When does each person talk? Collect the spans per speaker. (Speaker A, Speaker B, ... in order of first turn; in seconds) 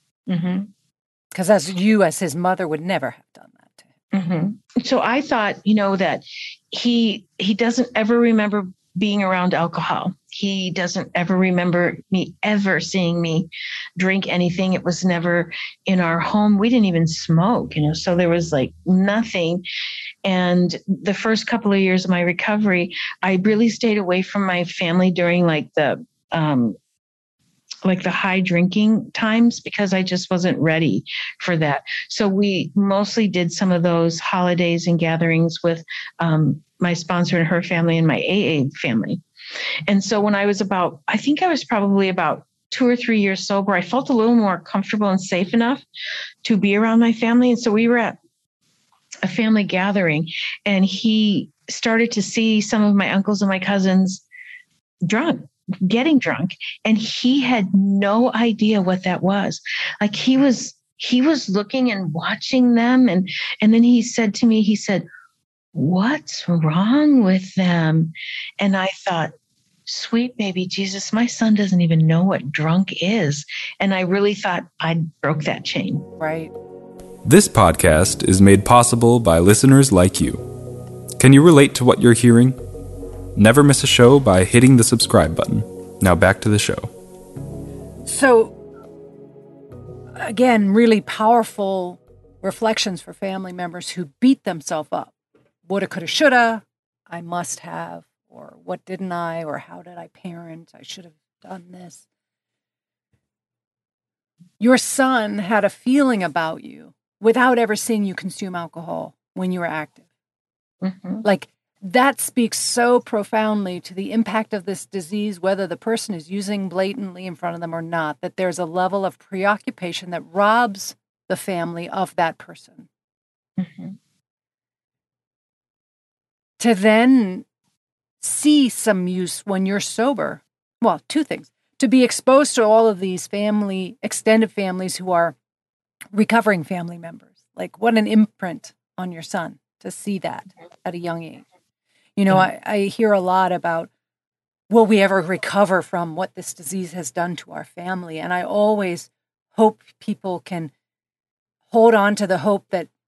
Speaker A: 0.3-0.7, 4.1-19.6, 20.2-26.8, 27.9-39.2, 39.9-45.8, 46.4-48.2, 49.2-54.2, 55.1-65.1, 65.7-69.3, 69.9-76.1, 110.8-111.2, 123.6-124.0
Speaker B: 1.3-3.9, 76.2-76.5, 88.1-88.5, 90.2-95.1, 95.7-102.0, 104.6-110.0, 111.2-122.9, 126.6-127.5, 128.2-135.3, 136.1-141.4, 142.2-143.9, 144.7-150.7, 151.7-152.9
Speaker C: 77.2-80.4, 81.2-82.6, 83.4-86.9